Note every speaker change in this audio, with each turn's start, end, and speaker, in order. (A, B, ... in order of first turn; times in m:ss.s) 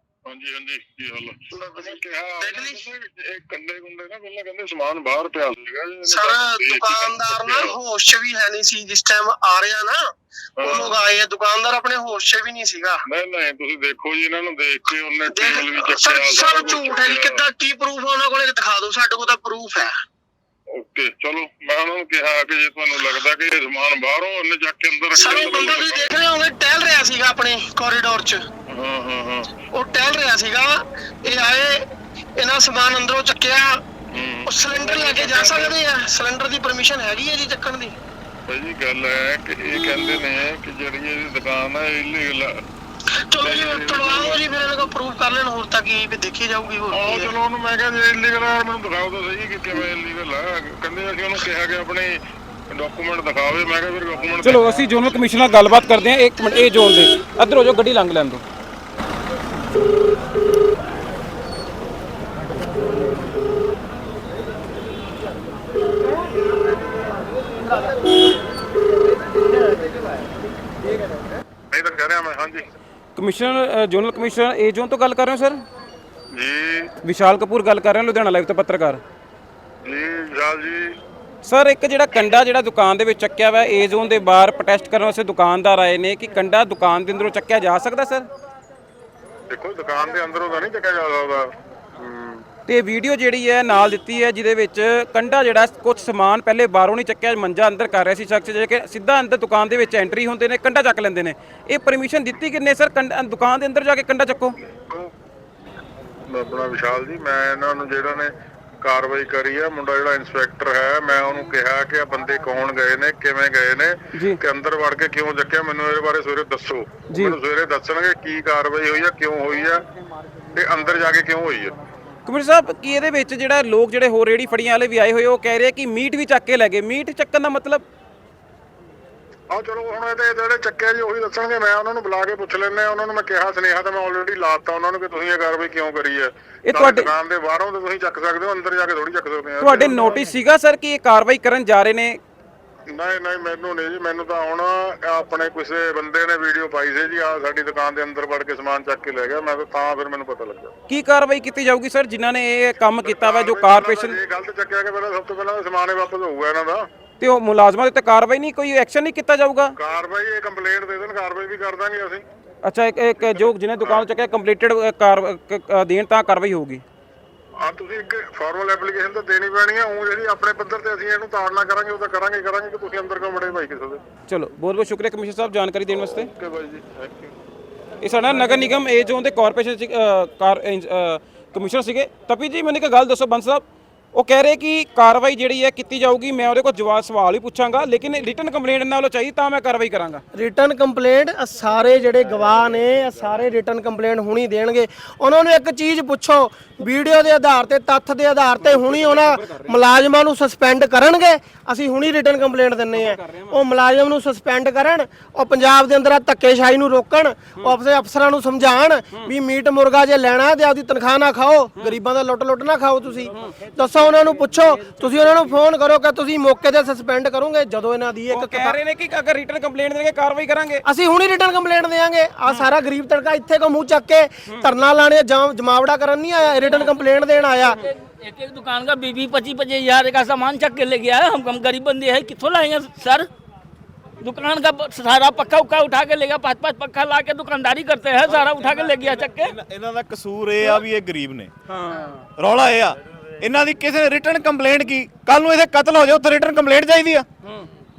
0:00.2-0:07.8 A
0:01.5-0:02.8 B
0:06.1-0:10.0 B
0:10.6-0:11.0 A
0:10.6-0:13.0 B
0:13.0-0:17.4 A
0:15.3-0:19.9 B
0:20.8-0:26.1 A
0:25.1-0:28.4 B
0:28.7-0:29.5 A
0:29.7-0:31.8 B
0:32.4-0:33.8 B
0:34.1-0:35.8 A
0:34.4-0:37.9 B
0:38.5-0:42.5 A
0:43.3-0:47.3 B
0:43.4-0:44.4 A
0:46.9-0:52.1 A
0:52.7-0:55.0 A
0:54.4-0:58.4 C
1:11.7-1:12.6 A
1:13.2-1:15.6 C
1:16.3-1:16.9 A
1:17.0-1:19.0 C
1:19.8-1:20.9 A
1:21.4-1:28.3 C
1:29.5-1:32.4 A
1:32.7-1:44.6 C
1:44.7-1:45.1 A
1:46.3-1:48.3 A
1:48.8-1:59.8 A
1:57.1-1:57.4 C
2:00.5-2:01.7 A
2:02.2-2:07.8 C
2:09.5-2:20.3 A
2:16.6-2:17.1 C
2:19.6-2:22.2 C
2:22.9-2:30.7 A
2:30.9-2:34.2 C
2:33.0-2:36.8 A
2:37.2-2:39.7 C
2:39.8-2:42.2 A
2:42.6-2:46.8 C
2:43.2-2:44.0 A
2:47.6-2:54.0 A
2:54.3-2:56.3 C
2:56.2-2:57.3 A
2:58.0-3:03.6 C
3:04.1-3:10.2 C
3:10.3-3:38.8 B
3:18.6-3:19.8 C
3:22.9-3:23.6 C
3:33.3-3:35.6 C
3:38.3-3:40.8 C
3:40.8-3:47.8 B
3:46.7-3:46.9 D
3:47.7-3:53.3 D
3:54.2-3:59.5 D
3:58.4-3:59.0 C
3:59.3-4:01.5 E
4:01.7-4:02.3 C
4:02.4-4:07.2 E
4:07.4-4:07.7 C